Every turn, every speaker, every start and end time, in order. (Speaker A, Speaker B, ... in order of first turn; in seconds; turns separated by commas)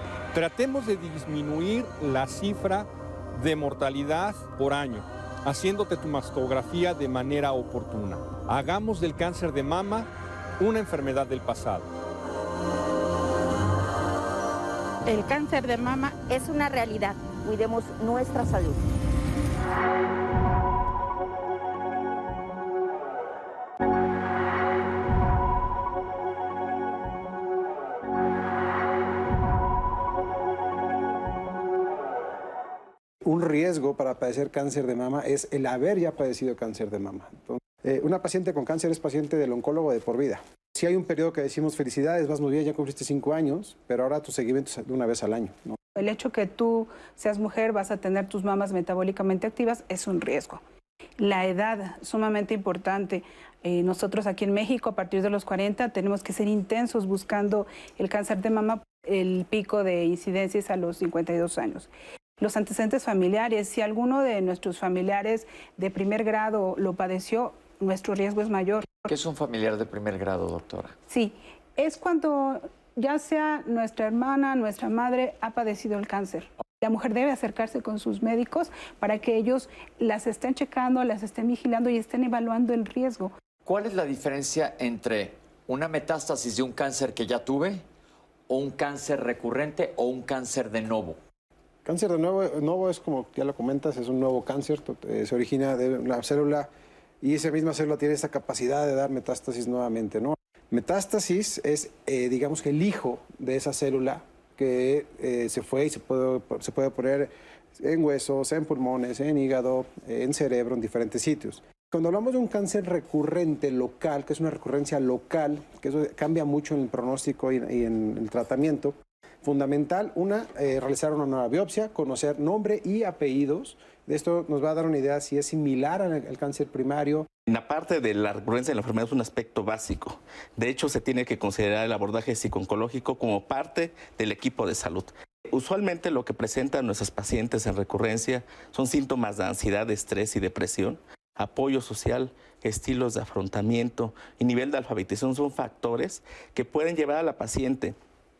Speaker A: 0.3-10.1, Speaker A: 10.6-11.9, Speaker B: 15.1-18.8, Speaker C: 33.2-45.8, Speaker D: 46.0-50.6, Speaker D: 51.2-69.0, Speaker E: 69.1-71.0, Speaker D: 71.1-83.3, Speaker E: 83.7-87.8, Speaker E: 88.5-91.2, Speaker C: 91.8-96.7, Speaker C: 97.2-127.3, Speaker F: 127.5-148.0